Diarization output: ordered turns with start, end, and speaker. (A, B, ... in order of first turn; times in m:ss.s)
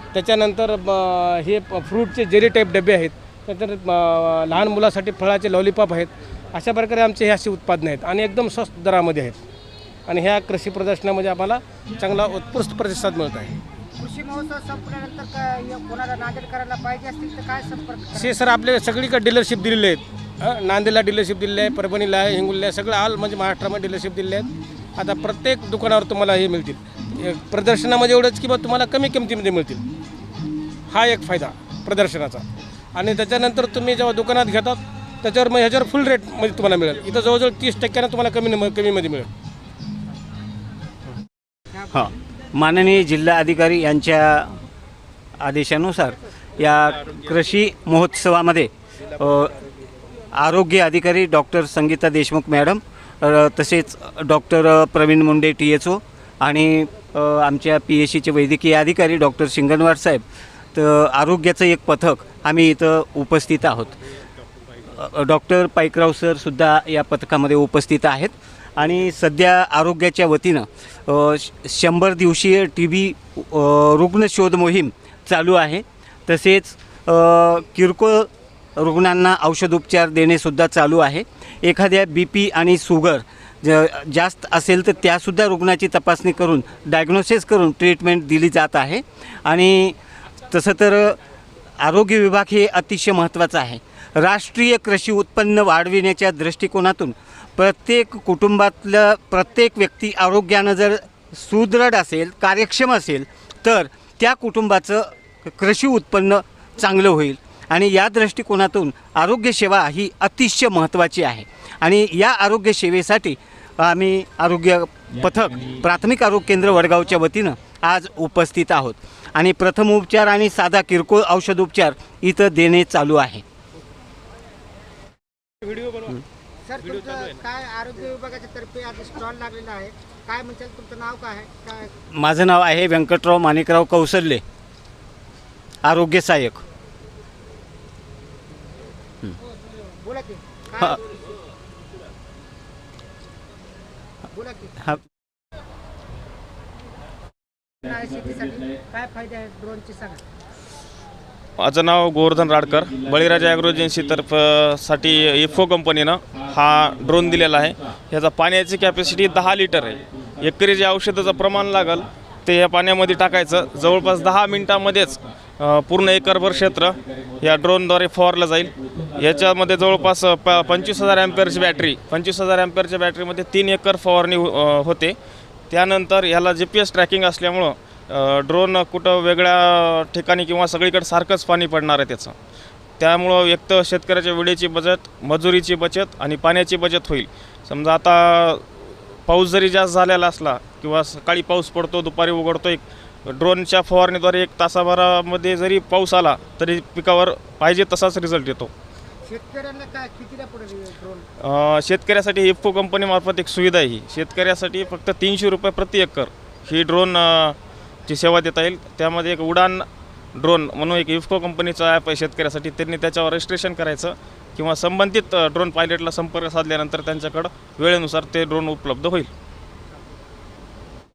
0:00.1-0:09.4 A
0:10.1-0:13.6 A
0:14.0-0:18.4 B
0:18.1-0:29.8 A
0:30.9-0:39.3 A
0:41.9-0:44.6 C
0:45.4-0:49.5 C
0:50.3-1:00.2 C
1:00.8-1:04.0 C
1:05.0-1:30.0 C
1:30.5-1:31.2 C
1:31.8-2:03.4 C
2:06.7-2:11.9 B
2:12.1-2:14.4 C
2:15.8-2:16.6 C
2:20.0-2:21.1 B
2:24.3-2:24.8 B
2:27.9-2:30.2 B
2:31.6-2:55.2 D
2:55.7-3:02.4 D
3:03.0-3:08.7 D
3:09.3-3:18.7 D
3:19.3-3:21.3 B
3:21.4-3:27.6 D
3:28.1-3:39.3 D